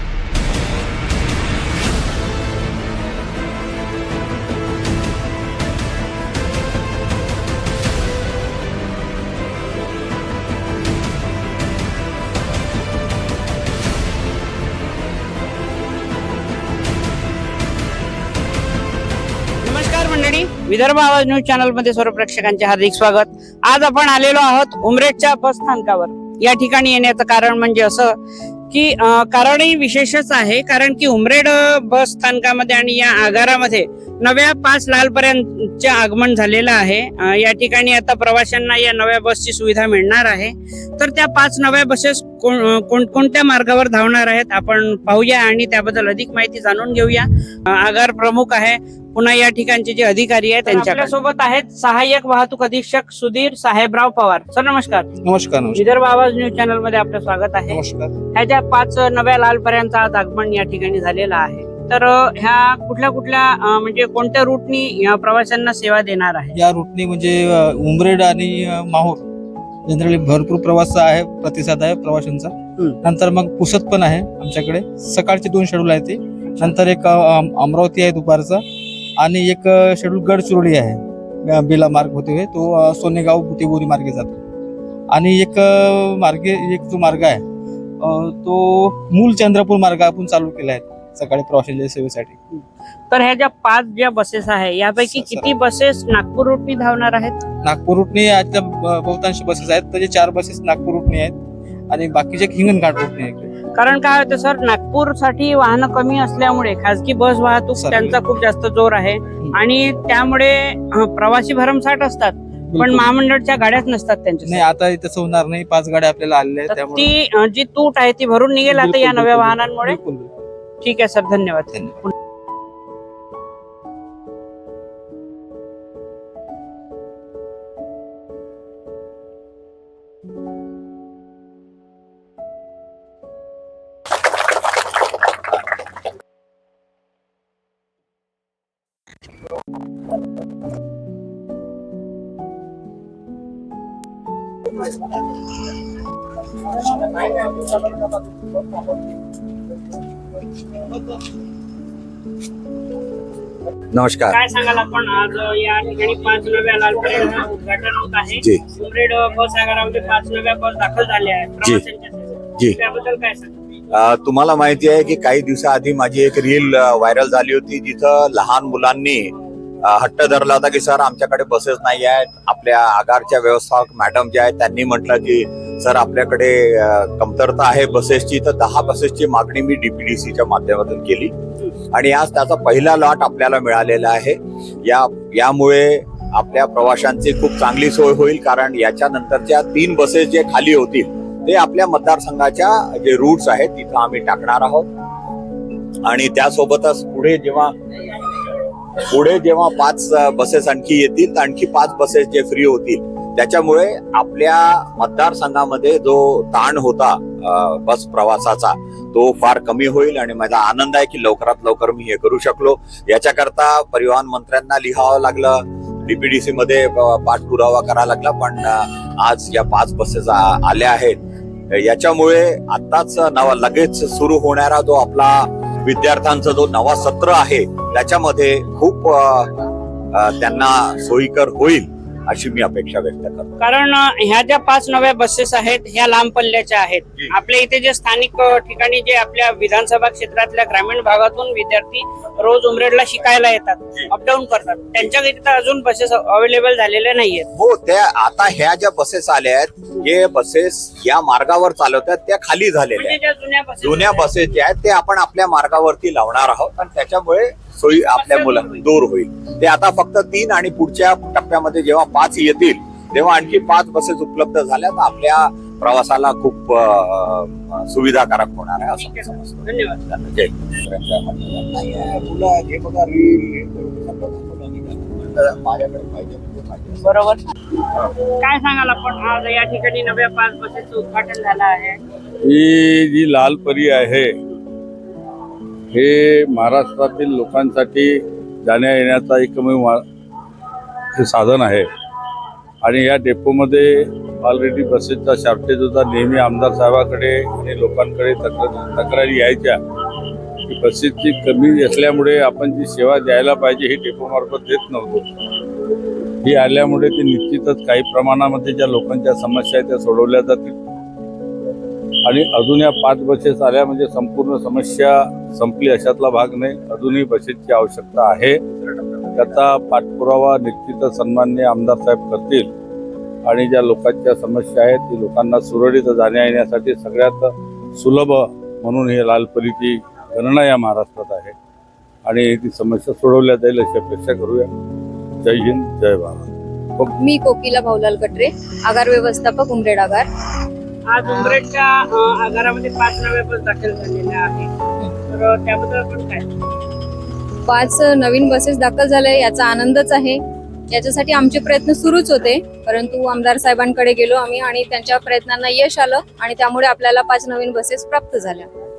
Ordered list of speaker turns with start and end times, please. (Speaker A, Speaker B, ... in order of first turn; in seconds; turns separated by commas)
Speaker A: 19.6-28.2, Speaker A: 28.7-55.1, Speaker B: 50.7-51.0, Speaker B: 55.2-55.8, Speaker A: 55.7-57.8, Speaker B: 57.7-58.1, Speaker A: 58.3-66.6, Speaker B: 66.5-69.2, Speaker B: 69.8-78.6, Speaker B: 79.2-84.4, Speaker B: 85.1-87.4, Speaker B: 88.0-92.3, Speaker A: 92.5-97.4, Speaker B: 95.0-95.5, Speaker B: 97.6-101.4, Speaker B: 101.9-103.5, Speaker A: 103.7-114.6, Speaker B: 107.7-108.2, Speaker B: 112.7-113.0, Speaker B: 114.5-117.1, Speaker A: 116.7-120.0, Speaker B: 118.7-120.3, Speaker A: 120.8-122.1, Speaker C: 153.9-154.4, Speaker A: 154.3-163.5, Speaker C: 163.9-181.3, Speaker C: 181.9-194.9, Speaker C: 196.1-197.7, Speaker C: 199.0-221.2, Speaker C: 221.7-229.5, Speaker C: 230.1-233.6, Speaker A: 233.6-247.5, Speaker C: 247.5-253.2, Speaker A: 252.9-254.4, Speaker C: 253.8-277.1, Speaker A: 257.9-258.8, Speaker A: 268.9-270.0, Speaker A: 277.0-277.5, Speaker A: 278.2-282.0, Speaker D: 282.4-284.3, Speaker D: 285.9-290.0, Speaker D: 291.2-291.9, Speaker D: 292.8-299.8, Speaker D: 300.7-305.3, Speaker D: 306.4-310.8, Speaker D: 312.2-318.6, Speaker C: 318.9-319.4, Speaker D: 319.4-322.7, Speaker D: 323.4-331.5, Speaker D: 332.2-334.7, Speaker D: 335.4-337.1, Speaker E: 337.2-340.3, Speaker A: 341.1-344.7, Speaker A: 345.3-346.5, Speaker E: 347.7-358.7